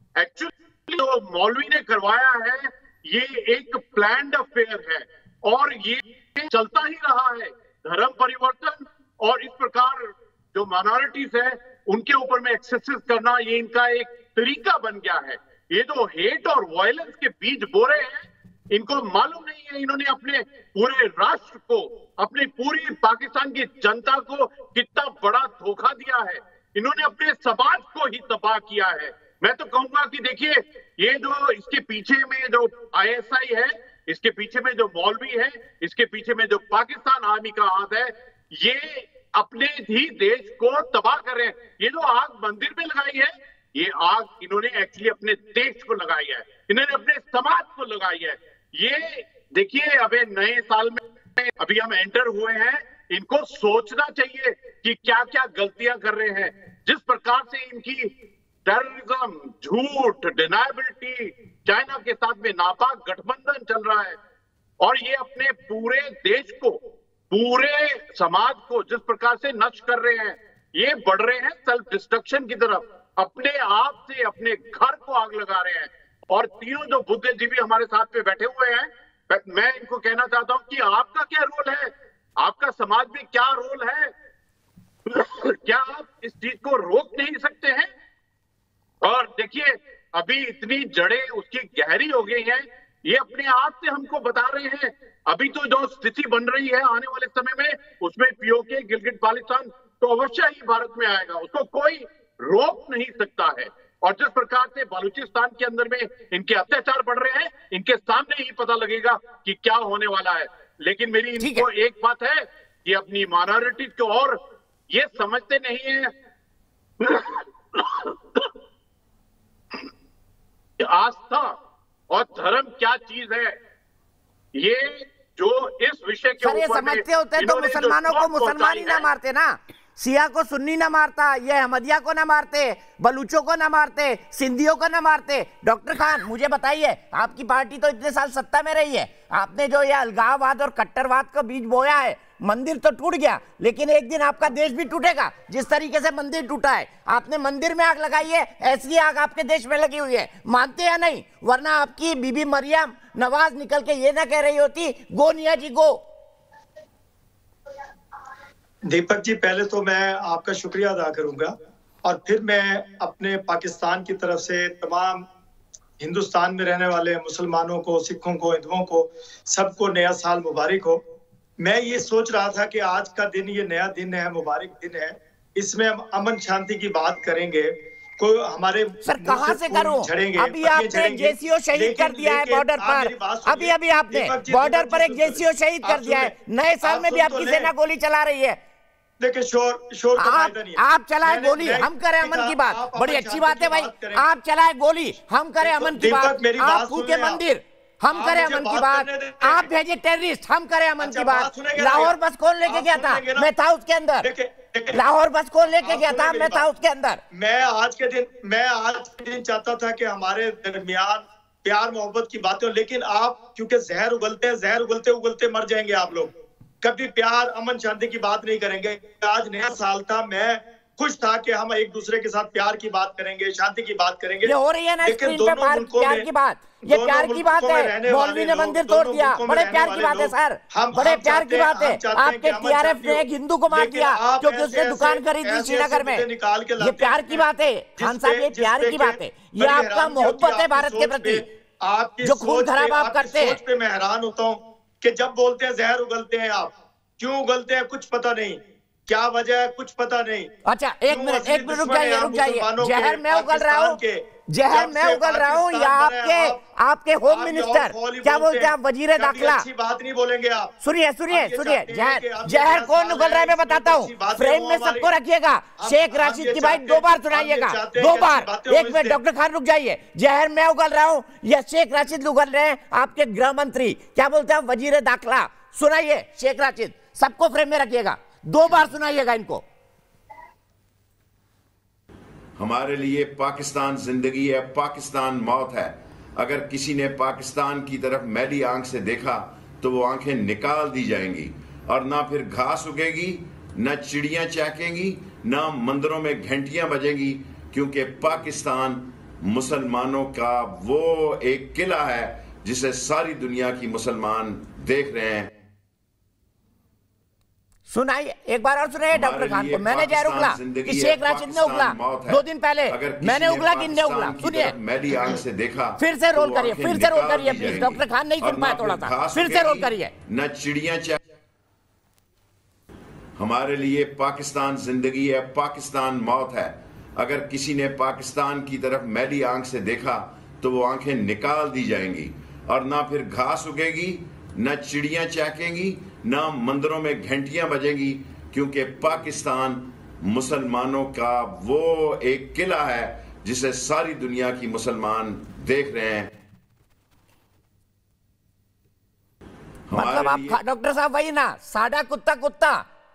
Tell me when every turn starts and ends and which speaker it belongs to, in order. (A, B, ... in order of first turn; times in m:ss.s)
0:00.2-0:58.1 A
0:58.7-1:04.2 A
1:04.8-1:06.8 A
1:07.3-1:24.1 A
1:25.1-1:27.9 A
1:29.0-1:54.4 A
1:51.4-1:51.7 B
1:54.9-1:56.1 A
1:57.0-1:58.5 A
2:00.8-2:01.5 A
2:02.1-2:03.6 A
2:04.6-2:09.1 A
2:06.4-2:36.0 B
2:38.9-2:41.5 C
2:42.0-2:45.2 C
2:46.0-2:51.0 C
2:51.6-3:07.7 C
2:59.0-3:08.6 B
3:09.2-3:14.2 C
3:10.2-3:24.3 B
3:15.6-3:17.4 C
3:18.1-3:19.7 C
3:21.0-3:22.2 C
3:22.7-3:23.5 C
3:24.2-3:25.0 C
3:24.9-3:27.2 B
3:25.8-3:26.7 C
3:27.3-3:46.3 C
3:44.4-3:56.2 B
3:46.8-3:57.5 C
3:56.8-4:01.4 B
3:58.0-4:10.5 C
4:02.2-4:03.6 B
4:10.7-4:19.6 B
4:11.1-4:16.6 C
4:17.3-4:20.7 C
4:20.8-4:39.6 B
4:21.3-4:25.1 C
4:25.8-4:29.2 C
4:42.6-5:05.5 D
5:07.9-5:14.7 B
5:09.1-5:21.2 D
5:16.0-5:20.1 B
5:23.4-5:46.3 D
5:49.9-5:50.6 D
5:49.9-5:52.8 B